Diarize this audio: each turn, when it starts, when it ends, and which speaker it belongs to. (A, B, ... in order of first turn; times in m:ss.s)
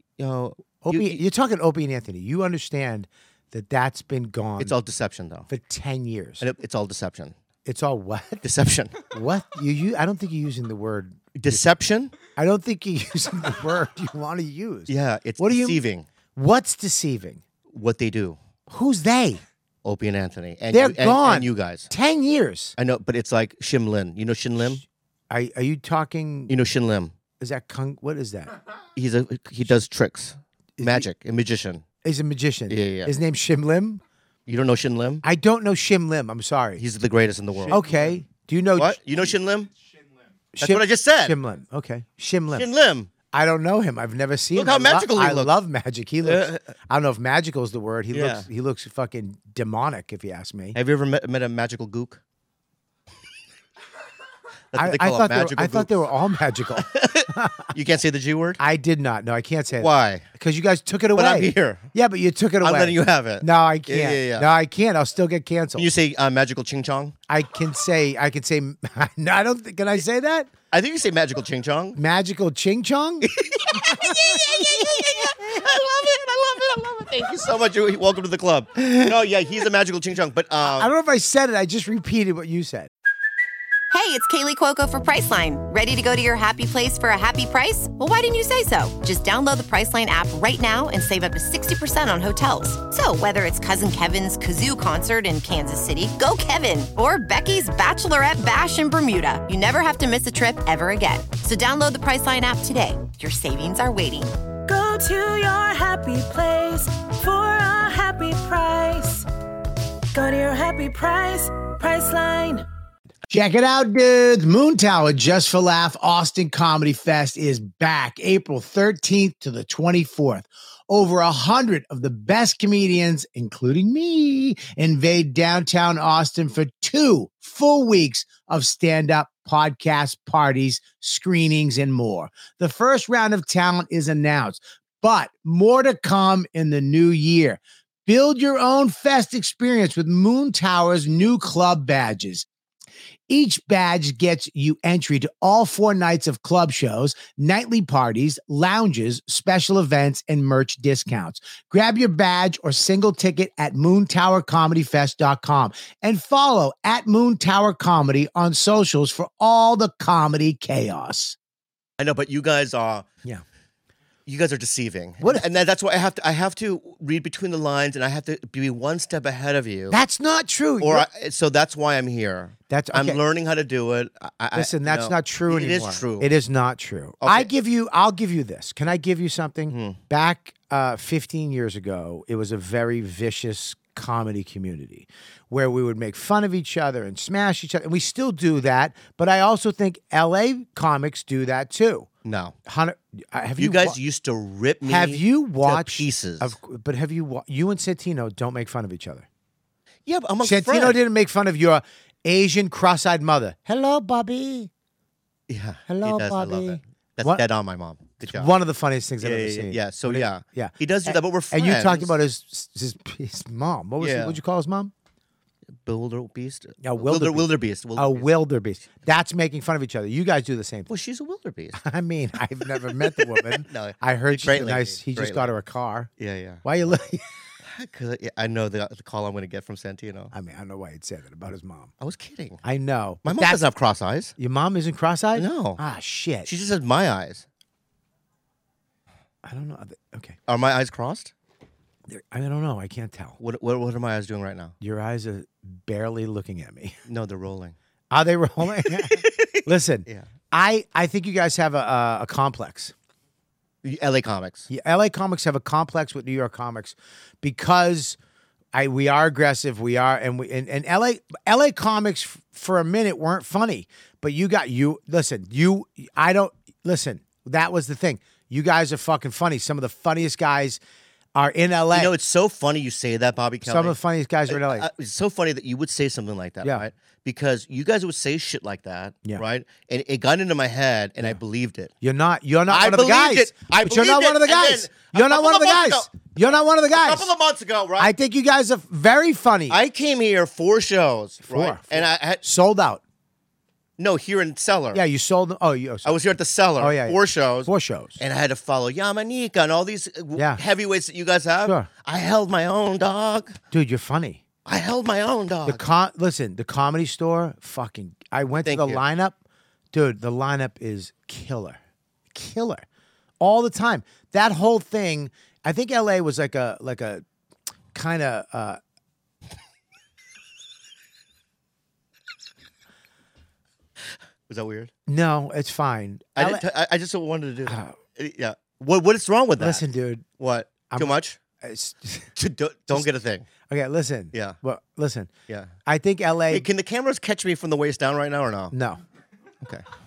0:00.2-0:01.2 A
0:00.8-0:04.8 B
0:04.6-0:05.5 A
0:05.5-0:06.4 B
0:06.4-0:07.3 A
0:07.6-0:08.4 B
0:08.4-0:09.0 A
0:09.1-0:11.6 B
0:11.4-0:12.1 A
0:12.3-0:15.8 B
0:14.9-0:16.1 A
0:16.3-0:17.4 B
0:17.7-0:18.4 A
0:18.7-0:19.4 B
0:19.8-0:21.9 A
0:20.7-0:22.7 B
0:22.8-0:24.8 A
0:25.3-0:26.5 B
0:26.5-0:27.1 A
0:27.4-0:28.6 B
0:29.0-0:31.8 A
0:30.8-0:31.1 B
0:32.0-0:34.0 B
0:32.7-0:33.1 A
0:34.5-0:35.2 A
0:35.2-0:36.8 B
0:36.8-0:37.9 A
0:37.7-0:39.3 B
0:38.7-0:39.7 A
0:40.6-0:42.7 B
0:40.6-0:41.4 A
0:42.5-0:43.1 A
0:43.3-0:50.8 B
0:44.5-0:45.5 A
0:46.2-0:46.6 A
0:48.1-0:48.5 A
0:50.7-0:52.2 A
0:54.7-0:55.9 A
0:54.7-0:57.7 B
0:56.8-0:58.6 A
0:58.6-1:05.9 B
0:59.8-1:00.2 A
1:01.1-1:01.8 A
1:02.6-1:04.5 A
1:05.8-1:07.2 A
1:07.3-1:10.5 B
1:10.7-1:12.0 A
1:11.9-1:15.6 B
1:13.2-1:20.9 A
1:20.6-1:22.9 B
1:23.9-1:44.4 C
1:44.6-1:49.2 D
1:50.1-1:52.6 D
1:53.3-2:22.4 B
2:23.3-2:41.4 B
2:42.0-2:43.0 A
2:44.2-2:50.0 A
2:49.9-2:51.1 B
2:50.8-2:56.3 A
2:52.7-2:53.2 B
2:54.5-3:12.1 B
2:57.2-2:57.5 A
2:59.7-3:00.0 A
3:12.2-3:12.5 A
3:12.6-3:14.0 B
3:13.6-3:16.6 A
3:14.8-3:19.2 B
3:20.0-3:21.0 A
3:20.4-3:24.7 B
3:25.5-3:28.5 A
3:25.9-3:27.4 B
3:28.2-3:34.9 B
3:29.2-3:32.2 A
3:34.0-3:34.4 A
3:35.8-3:38.3 A
3:36.8-3:40.9 B
3:40.9-3:41.8 A
3:41.8-3:46.1 B
3:42.9-3:45.5 A
3:46.2-3:47.0 A
3:46.6-3:47.3 B
3:47.6-3:50.3 A
3:50.3-3:51.9 B
3:52.0-3:52.6 A
3:52.6-3:53.6 B
3:53.2-3:54.3 A
3:54.4-3:56.5 B
3:55.3-3:55.8 A
3:56.4-3:57.4 A
3:59.4-4:00.4 B
4:00.5-4:01.3 A
4:02.1-4:03.4 B
4:03.4-4:04.7 A
4:04.8-4:07.0 B
4:07.0-4:07.8 A
4:08.1-4:12.9 B
4:08.8-4:10.3 A
4:13.8-4:14.7 A
4:14.7-4:18.2 B
4:18.7-4:30.8 B
4:31.3-4:32.1 B
4:31.9-4:34.0 A
4:33.6-4:34.9 B
4:34.5-4:41.9 A
4:42.0-4:47.3 B
4:42.7-4:46.3 A
4:46.9-4:48.1 A
4:48.0-4:49.8 B
4:49.7-4:52.4 A
4:51.5-4:53.0 B
4:54.0-4:55.0 A
4:54.9-4:56.2 B
4:56.0-5:03.6 A
4:56.8-4:58.2 B
5:00.4-5:00.6 B
5:01.6-5:01.9 B
5:03.7-5:04.4 B
5:04.6-5:05.9 A
5:05.6-5:09.4 B
5:08.6-5:09.0 A
5:09.9-5:11.8 B
5:12.3-5:12.8 B
5:13.4-5:17.2 B
5:17.9-5:18.8 B
5:24.5-5:24.9 A
5:25.1-5:26.6 B
5:26.4-5:29.8 A
5:27.6-5:27.9 B
5:29.6-5:30.2 B
5:30.4-5:31.4 A
5:30.9-5:32.3 B
5:32.4-5:33.5 A
5:33.7-5:35.3 B
5:35.5-5:35.7 A
5:35.8-5:36.7 B
5:36.5-5:38.7 A
5:38.7-5:39.0 B